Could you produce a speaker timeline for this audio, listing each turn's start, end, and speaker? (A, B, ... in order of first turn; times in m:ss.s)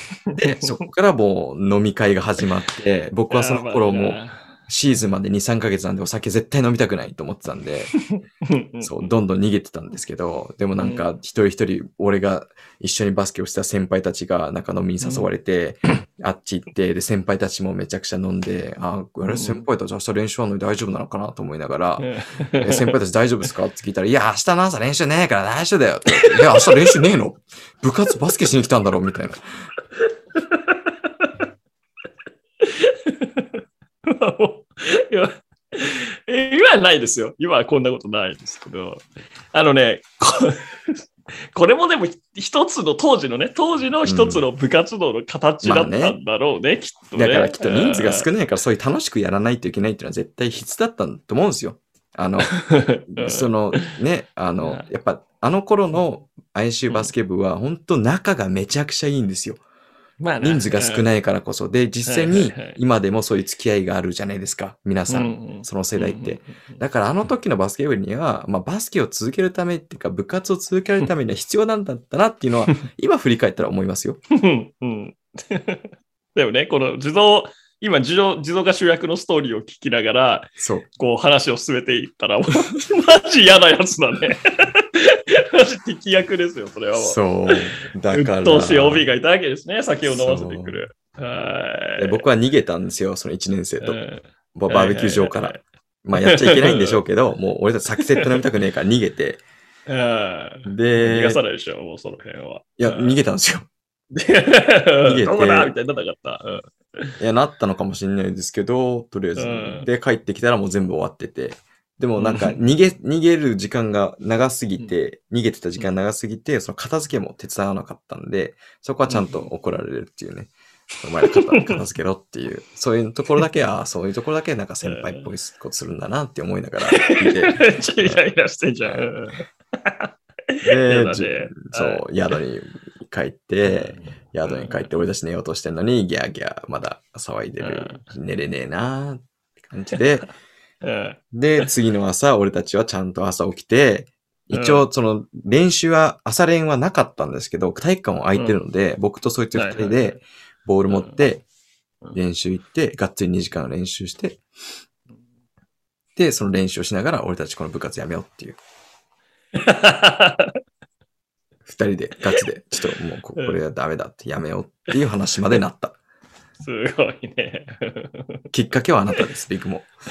0:00.3-0:00.9 A
0:00.3-0:07.9 B
0:03.3-0:04.5 A
0:08.1-0:09.1 A
0:08.8-0:29.4 B
0:10.8-0:11.0 A
0:15.0-0:15.3 A
0:19.3-0:19.6 A
0:22.0-0:23.0 A
0:26.1-0:27.0 A
0:30.4-0:31.3 A
0:32.6-0:48.3 A
0:44.0-0:44.4 B
0:45.6-0:46.2 B
0:47.2-0:52.6 B
0:52.4-0:54.0 A
0:53.1-0:59.6 B
0:54.6-0:54.9 A
1:00.2-1:01.1 A
1:00.4-1:14.2 B
1:02.0-1:02.8 A
1:05.1-1:06.8 A
1:14.3-1:32.2 A
1:20.6-1:20.9 B
1:27.0-1:29.1 B
1:30.0-1:30.8 B
1:32.0-1:34.0 B
1:33.8-1:35.6 A
1:34.6-1:39.4 B
1:36.1-1:37.0 A
1:38.1-1:38.4 A
1:39.9-1:43.2 A
1:40.7-1:41.4 B
1:42.8-1:43.7 B
1:44.1-1:47.2 A
1:45.0-1:45.7 B
1:47.2-2:00.5 B
1:49.4-1:49.9 A
1:52.2-1:52.6 A
1:59.1-1:59.5 A
2:01.0-2:08.2 B
2:01.2-2:01.8 A
2:04.8-2:05.3 A
2:06.9-2:12.1 A
2:10.6-2:20.3 B
2:13.7-2:14.9 A
2:17.6-2:18.0 A
2:20.8-2:21.7 A
2:21.3-2:31.4 B
2:24.5-2:24.8 A
2:28.4-2:28.6 A
2:29.5-2:30.2 A
2:30.9-2:31.2 A
2:32.2-2:34.4 B
2:36.2-2:38.6 B
2:39.6-2:40.6 A
2:41.7-2:46.0 B
2:46.6-2:48.4 A
2:48.5-2:49.9 B